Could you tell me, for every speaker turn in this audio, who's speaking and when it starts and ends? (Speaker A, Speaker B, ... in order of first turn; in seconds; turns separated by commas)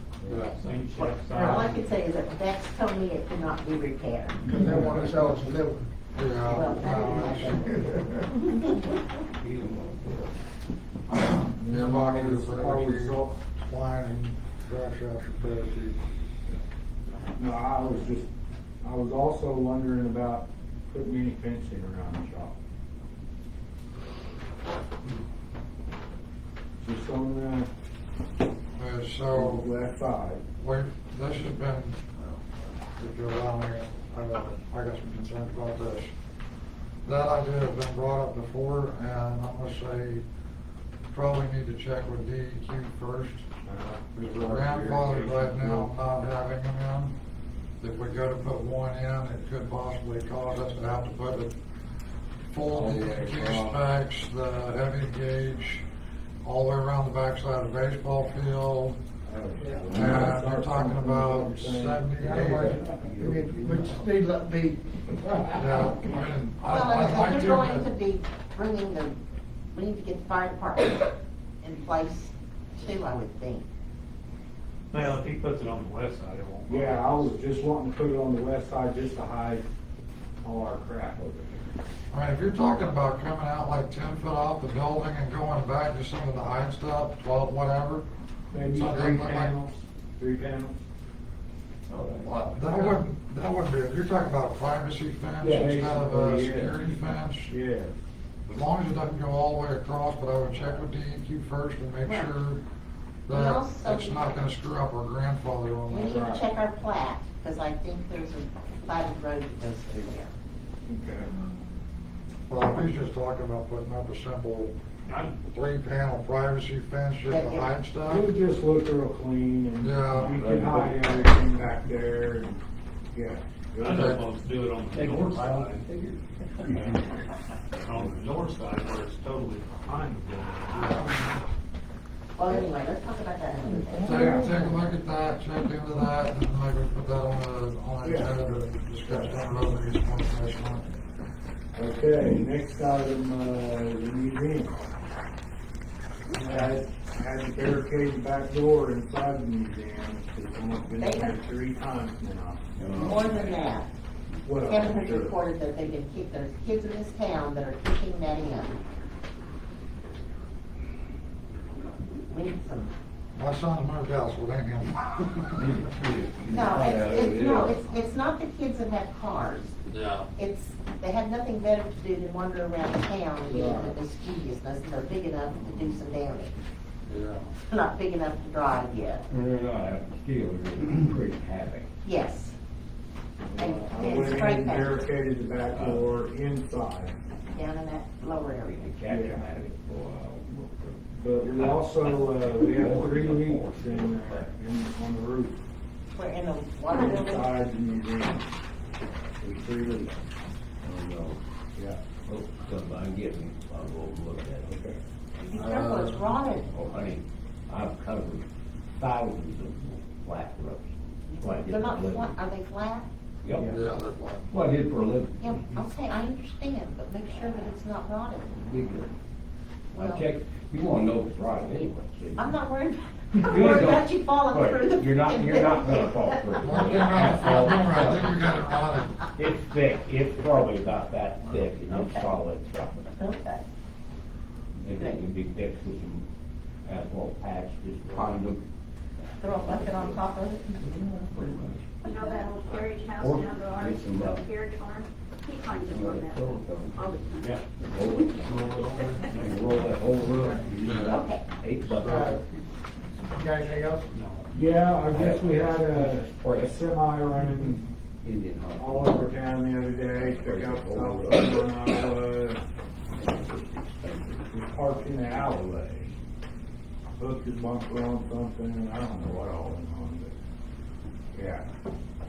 Speaker A: 0.4-4.5, Speaker B: 0.5-1.9, Speaker C: 4.5-5.9, Speaker D: 4.5-5.2, Speaker D: 6.1-8.1, Speaker A: 6.5-7.6, Speaker E: 9.4-10.3, Speaker D: 11.1-16.0, Speaker F: 11.6-13.4, Speaker F: 17.3-18.3, Speaker F: 18.8-22.6, Speaker F: 26.8-27.7, Speaker D: 28.8-29.7, Speaker F: 29.3-30.4, Speaker D: 30.6-32.0, Speaker D: 33.0-36.1, Speaker D: 37.0-40.2, Speaker D: 41.1-43.5, Speaker F: 43.6-45.9, Speaker D: 44.2-47.1, Speaker D: 47.8-51.5, Speaker D: 52.5-55.8, Speaker F: 52.7-53.8, Speaker D: 56.4-59.0, Speaker F: 59.2-62.9, Speaker C: 59.6-60.1, Speaker D: 59.9-62.8, Speaker C: 62.2-65.9, Speaker F: 63.5-63.8, Speaker D: 65.5-67.9, Speaker A: 66.6-69.2, Speaker A: 69.7-73.7, Speaker B: 74.9-77.3, Speaker F: 76.7-79.6, Speaker F: 80.4-81.6, Speaker D: 82.1-88.0, Speaker F: 88.5-90.8, Speaker D: 88.7-89.5, Speaker E: 91.9-92.8, Speaker D: 92.3-97.5, Speaker E: 95.4-95.8, Speaker F: 95.5-96.9, Speaker F: 97.5-97.9, Speaker D: 98.5-102.6, Speaker A: 102.0-102.3, Speaker D: 103.3-106.2, Speaker A: 103.3-104.1, Speaker A: 105.9-110.3, Speaker F: 106.1-106.4, Speaker F: 110.8-111.3, Speaker D: 112.5-114.7, Speaker B: 115.1-115.3, Speaker D: 115.5-118.3, Speaker A: 117.3-117.7, Speaker F: 118.1-122.6, Speaker D: 119.8-120.4, Speaker E: 120.1-121.5, Speaker B: 120.2-120.9, Speaker F: 123.1-124.1, Speaker B: 123.8-125.9, Speaker D: 123.9-124.2, Speaker E: 124.9-126.7, Speaker B: 126.7-127.1, Speaker B: 127.7-131.1, Speaker D: 130.7-131.2, Speaker A: 132.3-134.4, Speaker D: 134.0-140.9, Speaker F: 134.1-134.6, Speaker F: 138.0-138.4, Speaker F: 139.1-139.3, Speaker F: 141.7-144.9, Speaker F: 146.4-152.6, Speaker A: 151.0-151.3, Speaker E: 152.8-153.6, Speaker A: 152.9-153.9, Speaker F: 154.4-155.4, Speaker A: 154.6-158.8, Speaker A: 162.3-162.9, Speaker D: 163.3-165.6, Speaker E: 165.6-167.8, Speaker A: 166.5-169.8, Speaker B: 169.9-170.3, Speaker A: 170.3-176.5, Speaker F: 173.4-174.0, Speaker D: 177.0-177.5, Speaker A: 177.7-179.2, Speaker E: 179.3-181.9, Speaker A: 182.0-182.6, Speaker F: 183.5-187.1, Speaker A: 183.6-184.9, Speaker E: 185.6-186.1, Speaker A: 187.5-188.9, Speaker E: 188.8-194.5, Speaker F: 189.0-189.4, Speaker F: 191.1-195.6, Speaker A: 196.1-197.5, Speaker F: 197.0-198.4, Speaker F: 199.4-200.2, Speaker E: 200.8-201.4, Speaker F: 201.7-202.0, Speaker E: 202.2-204.7, Speaker F: 204.6-205.0, Speaker A: 205.4-206.7, Speaker F: 205.5-206.3, Speaker E: 206.7-208.4, Speaker E: 209.0-212.3, Speaker A: 211.3-213.1, Speaker E: 213.4-213.7, Speaker D: 213.5-214.5, Speaker E: 214.5-215.7, Speaker A: 215.4-218.6, Speaker E: 218.6-219.1, Speaker E: 219.9-222.5, Speaker A: 219.9-220.2, Speaker A: 222.3-227.7, Speaker E: 223.4-228.3, Speaker D: 226.6-229.2, Speaker E: 229.4-233.2, Speaker A: 231.9-232.2, Speaker A: 233.2-233.6, Speaker E: 234.8-236.2, Speaker A: 234.9-235.2, Speaker E: 236.8-238.6, Speaker A: 239.4-240.8, Speaker E: 239.4-240.2, Speaker E: 240.8-242.0, Speaker G: 242.1-246.4, Speaker E: 243.2-244.4, Speaker E: 245.9-248.7, Speaker G: 246.9-247.6, Speaker B: 248.4-249.5, Speaker E: 249.3-252.3, Speaker D: 250.6-251.1, Speaker A: 251.0-251.4, Speaker C: 252.0-252.5, Speaker D: 252.1-252.3, Speaker C: 253.3-254.2, Speaker B: 254.1-254.4, Speaker F: 254.5-257.9, Speaker E: 255.1-256.8, Speaker E: 258.2-259.3, Speaker F: 258.8-262.6, Speaker E: 260.1-261.7, Speaker E: 263.2-265.6, Speaker F: 264.5-266.1, Speaker F: 267.2-270.3, Speaker F: 271.3-271.7